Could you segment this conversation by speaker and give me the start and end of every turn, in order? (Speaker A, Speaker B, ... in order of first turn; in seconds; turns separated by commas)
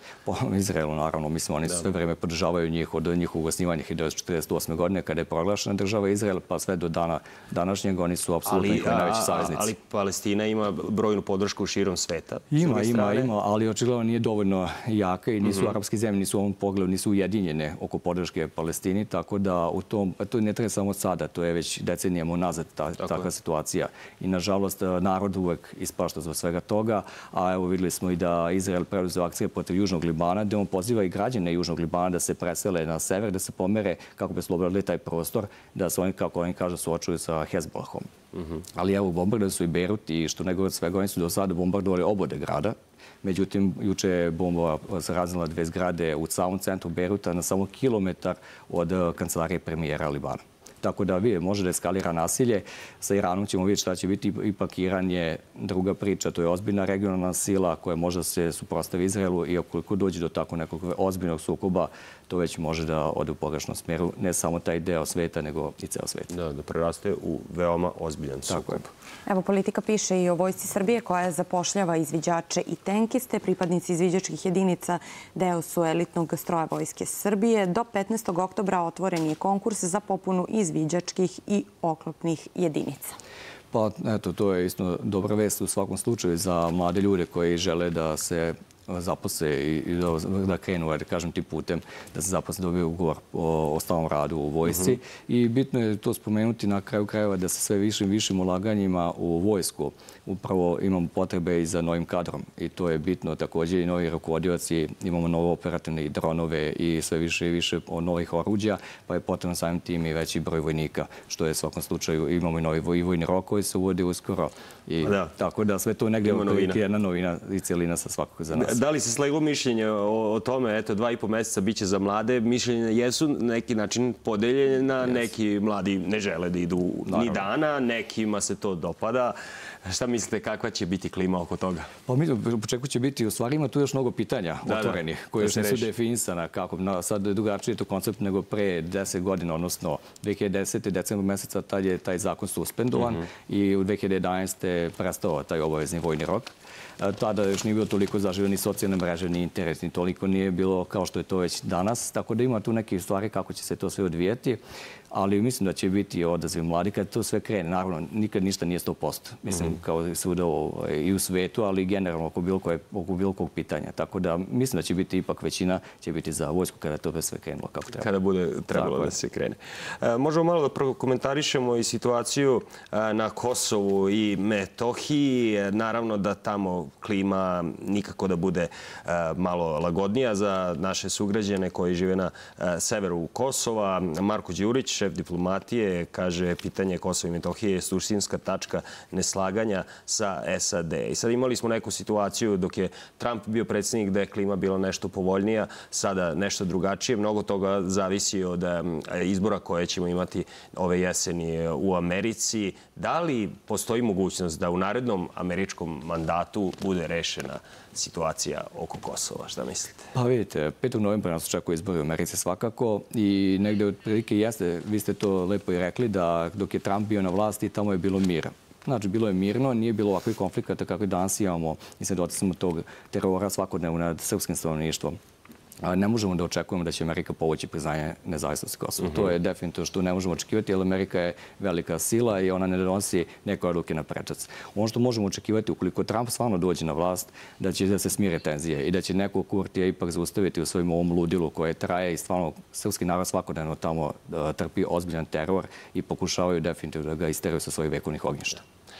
Speaker A: 0.2-9.7, Speaker B: 8.4-13.3, Speaker A: 12.5-38.1, Speaker B: 15.4-15.7, Speaker A: 38.7-66.3, Speaker B: 66.3-68.9, Speaker A: 68.5-68.8, Speaker C: 69.3-83.2, Speaker A: 83.7-118.8, Speaker B: 115.0-115.3, Speaker B: 116.2-116.8, Speaker B: 118.5-131.9, Speaker A: 127.0-127.5, Speaker A: 132.1-154.6, Speaker B: 134.7-135.9, Speaker B: 143.0-143.2, Speaker A: 155.1-168.1, Speaker B: 167.9-210.1, Speaker A: 168.7-169.1, Speaker A: 210.1-225.2, Speaker A: 225.8-248.6